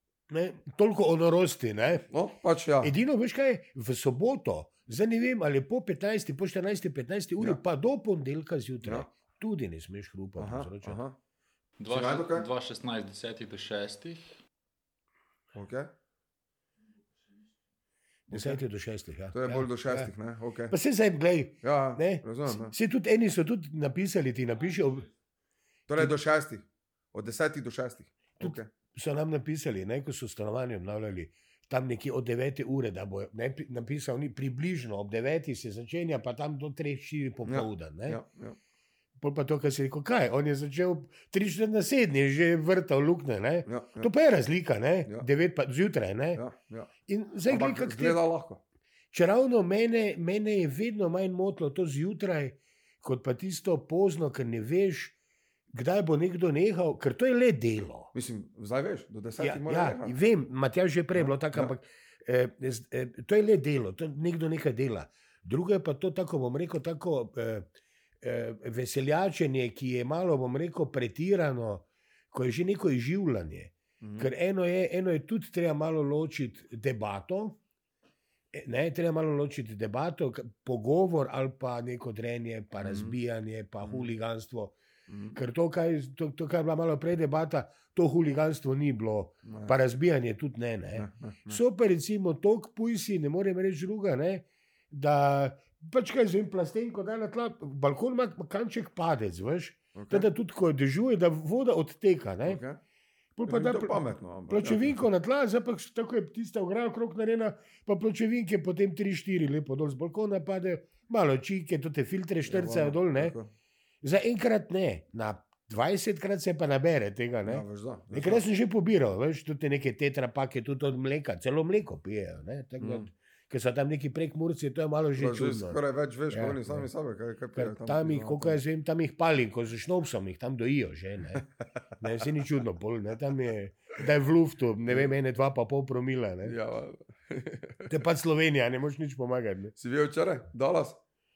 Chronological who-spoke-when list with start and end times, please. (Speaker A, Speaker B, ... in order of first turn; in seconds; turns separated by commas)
Speaker A: 0.3-2.1, Speaker B: 2.0-2.9, Speaker A: 2.8-11.0, Speaker B: 8.8-9.1, Speaker B: 10.4-11.2, Speaker C: 11.8-14.4, Speaker B: 11.9-12.5, Speaker B: 15.5-15.9, Speaker B: 18.3-18.6, Speaker A: 18.3-20.1, Speaker B: 19.3-20.7, Speaker A: 20.7-25.1, Speaker B: 21.6-22.7, Speaker B: 25.9-28.7, Speaker A: 28.4-38.2, Speaker B: 37.5-38.6, Speaker A: 39.2-46.4, Speaker B: 43.6-44.1, Speaker B: 46.3-46.9, Speaker A: 47.1-48.2, Speaker B: 47.5-48.6, Speaker A: 49.1-55.1, Speaker A: 55.7-58.1, Speaker B: 58.1-60.1, Speaker A: 59.4-67.7, Speaker B: 61.1-61.7, Speaker A: 68.2-77.6, Speaker B: 74.0-74.3, Speaker A: 78.5-84.7, Speaker B: 82.8-83.2, Speaker B: 83.8-84.1, Speaker B: 85.1-85.4, Speaker A: 85.3-102.6, Speaker B: 89.4-89.8, Speaker B: 90.9-91.6, Speaker B: 99.9-100.3, Speaker B: 102.4-102.8, Speaker A: 103.4-113.3, Speaker B: 103.5-105.0, Speaker B: 112.4-113.5, Speaker A: 114.0-126.9, Speaker B: 117.5-118.4, Speaker B: 122.8-123.1, Speaker B: 125.2-128.6, Speaker A: 127.5-131.4, Speaker A: 132.0-136.6, Speaker B: 134.9-135.1, Speaker B: 136.4-138.0, Speaker A: 137.9-139.7, Speaker B: 139.8-141.0